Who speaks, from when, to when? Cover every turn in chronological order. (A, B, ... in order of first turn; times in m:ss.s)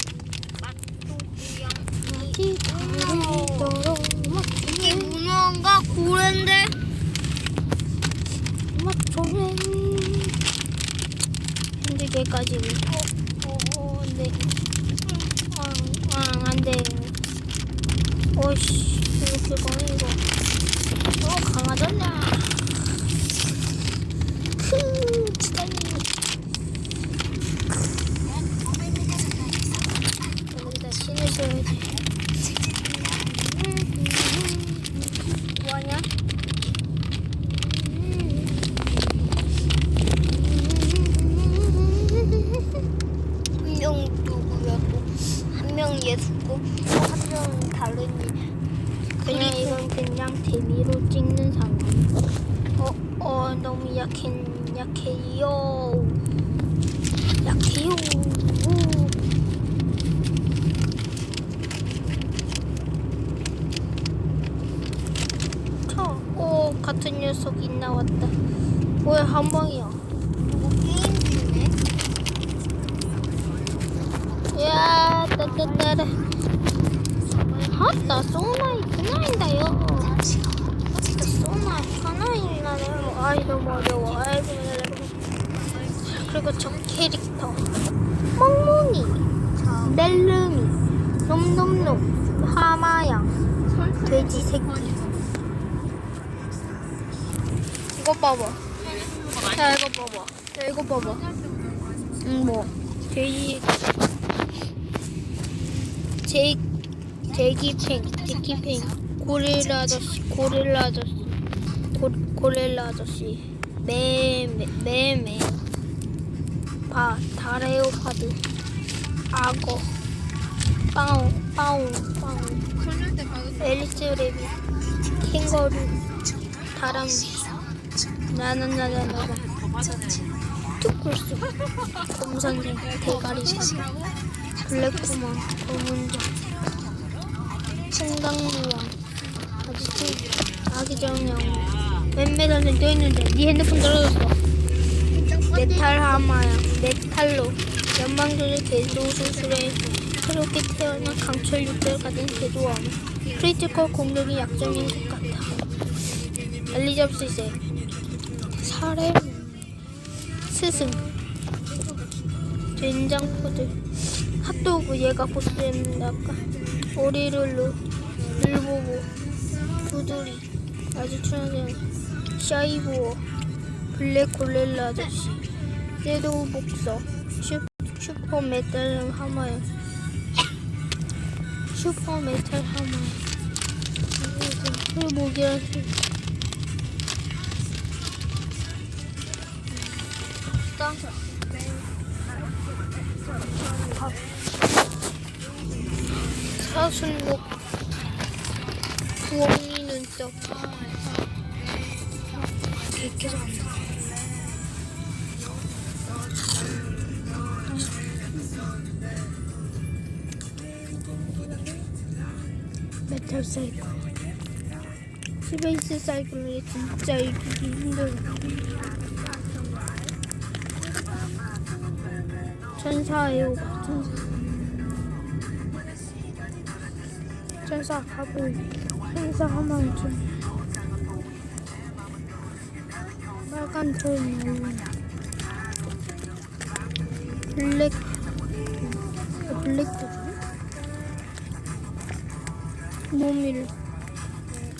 0:00.6-0:03.7 A
0:02.0-0:05.2 B
0:04.6-0:06.8 A
0:08.7-0:10.4 B
0:11.8-0:17.1 B
0:18.3-0:20.2 B
0:21.2-0:23.0 B
0:24.6-0:26.1 B
0:30.5-0:32.0 B
0:33.1-0:36.1 B
0:37.4-0:38.8 B
0:40.2-0:42.6 B
0:43.6-0:48.4 A
0:49.2-0:52.1 B
0:49.3-0:49.8 A
0:52.8-0:56.2 B
0:57.4-0:59.1 B
1:05.9-1:08.3 B
1:09.0-1:10.0 B
1:10.4-1:11.8 A
1:14.5-1:16.2 B
1:17.7-1:20.2 B
1:20.9-1:25.2 B
1:26.0-1:27.7 B
1:28.3-1:29.2 B
1:29.6-1:30.0 A
1:29.8-1:33.3 B
1:33.7-1:35.3 C
1:34.0-1:35.0 B
1:37.9-1:38.7 B
1:39.4-1:41.2 B
1:41.2-1:42.7 C
1:42.3-1:42.6 A
1:42.6-1:43.8 B
1:46.2-1:46.6 B
1:47.3-1:51.4 B
1:51.9-1:55.6 B
1:56.9-1:58.4 B
1:59.3-1:59.9 B
2:00.9-2:02.6 B
2:02.8-2:03.9 C
2:03.6-2:04.6 B
2:05.2-2:06.0 B
2:06.7-2:07.4 B
2:08.3-2:09.5 B
2:10.8-2:11.4 B
2:12.0-2:13.8 B
2:12.8-2:14.1 C
2:14.6-2:16.3 B
2:17.9-2:18.9 B
2:19.6-2:24.4 B
2:25.5-2:35.6 B
2:36.7-2:37.6 B
2:38.5-2:39.5 B
2:40.5-2:41.1 B
2:42.8-2:46.4 B
2:46.9-2:47.8 B
2:48.3-2:49.1 B
2:49.8-2:51.8 B
2:52.4-2:53.2 B
2:53.9-2:55.5 B
2:56.0-2:59.6 B
3:01.7-3:03.2 B
3:04.2-3:05.9 B
3:10.8-3:11.0 B
3:16.5-3:17.4 B
3:19.3-3:20.4 B
3:22.9-3:23.7 B
3:33.1-3:33.9 B
3:35.4-3:38.5 B
3:39.5-3:39.8 C
3:42.8-3:44.3 B
3:47.6-3:50.3 B
3:53.4-3:54.9 B
3:57.5-3:58.1 B
3:58.8-4:00.4 B
4:03.1-4:03.7 B